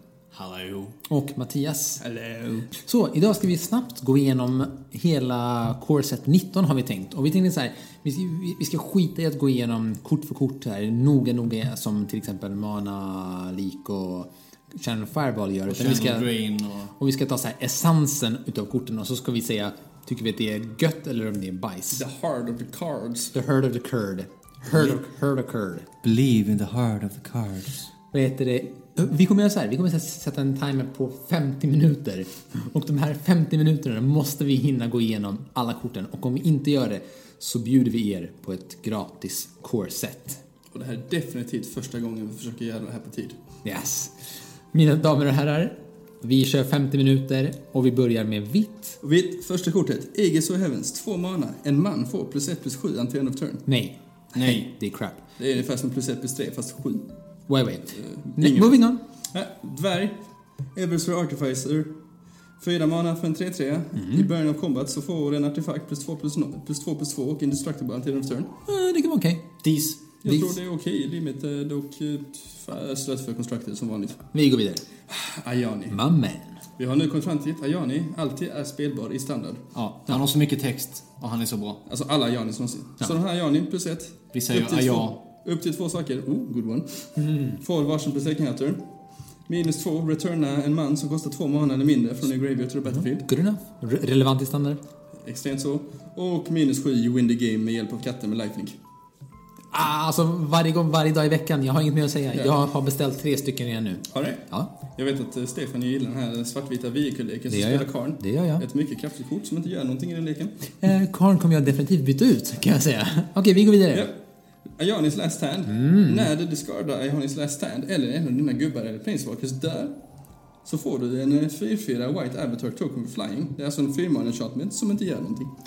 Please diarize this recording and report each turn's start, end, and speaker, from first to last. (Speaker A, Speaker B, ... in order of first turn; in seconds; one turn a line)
Speaker A: 0.3-0.9
Speaker B: 1.1-2.0
Speaker C: 2.1-2.7
Speaker B: 2.8-16.3
Speaker A: 15.7-16.9
Speaker B: 17.0-22.0
Speaker C: 21.9-23.3
Speaker B: 23.3-25.9
Speaker A: 26.0-27.9
Speaker B: 28.1-40.4
Speaker C: 40.7-43.4
Speaker B: 43.6-44.1
Speaker B: 44.7-49.0
Speaker C: 49.0-53.6
Speaker B: 53.7-55.2
Speaker A: 54.4-54.7
Speaker C: 55.4-57.1
Speaker B: 57.5-59.0
Speaker C: 57.9-58.8
Speaker C: 59.3-60.2
Speaker C: 60.8-61.9
Speaker C: 62.6-68.5
Speaker B: 64.0-64.3
Speaker B: 68.7-69.5
Speaker A: 69.6-70.0
Speaker C: 70.2-74.2
Speaker B: 70.3-70.5
Speaker B: 74.3-74.8
Speaker C: 75.1-76.0
Speaker B: 75.9-76.6
Speaker C: 76.8-79.7
Speaker A: 79.7-81.8
Speaker C: 81.9-88.8
Speaker A: 84.3-85.2
Speaker B: 87.3-87.6
Speaker C: 89.5-93.3
Speaker B: 93.0-94.8
Speaker C: 95.2-98.8
Speaker B: 99.7-104.7
Speaker C: 104.1-110.6
Speaker B: 107.5-108.6
Speaker B: 110.8-114.1
Speaker C: 113.9-114.2
Speaker C: 114.8-119.9
Speaker B: 115.7-116.3
Speaker C: 120.6-125.5